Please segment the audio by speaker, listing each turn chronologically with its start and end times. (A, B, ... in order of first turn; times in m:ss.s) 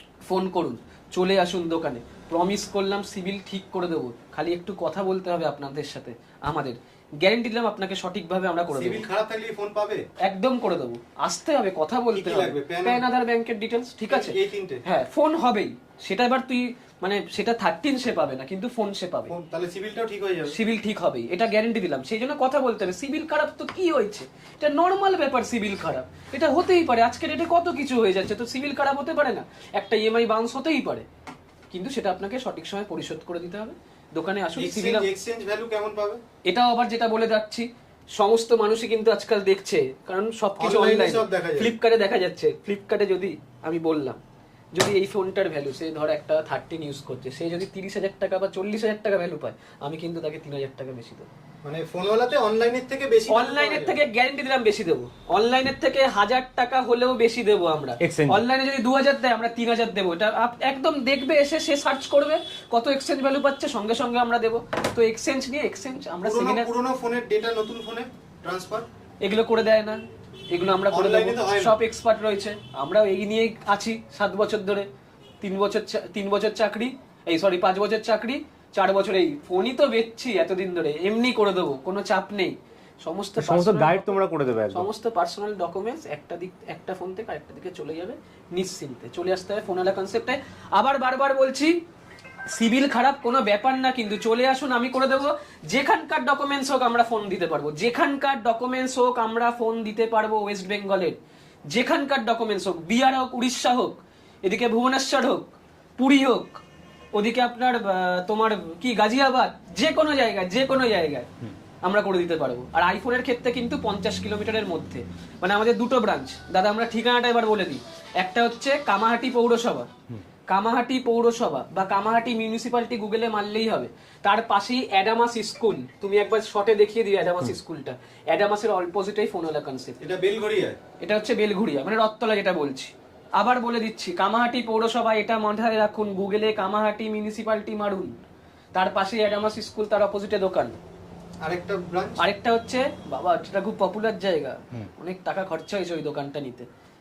0:00.3-0:09.0 A
0:08.7-0:10.0 B
0:10.2-0:19.3 A
0:12.1-0:13.0 B
0:14.1-0:14.8 B
0:19.3-0:20.6 B
0:20.5-0:31.1 A
0:31.7-0:35.1 A
0:34.6-0:36.2 B
0:36.5-0:44.2 A
0:40.6-0:41.7 B
0:44.8-0:51.3 A
0:51.6-0:54.0 B
0:53.3-1:06.7 A
0:58.0-0:58.4 C
1:06.2-1:08.9 B
1:09.2-1:10.0 A
1:10.5-1:14.9 A
1:10.9-1:11.8 B
1:15.4-1:24.2 A
1:23.4-1:24.9 C
1:24.7-1:31.8 A
1:32.5-1:41.2 A
1:41.7-1:46.6 A
1:47.2-1:51.3 A
1:51.8-1:59.9 A
2:00.5-2:10.0 A
2:10.0-2:10.8 B
2:11.0-2:18.1 A
2:18.8-2:20.8 A
2:21.4-2:22.2 B
2:22.2-2:26.7 A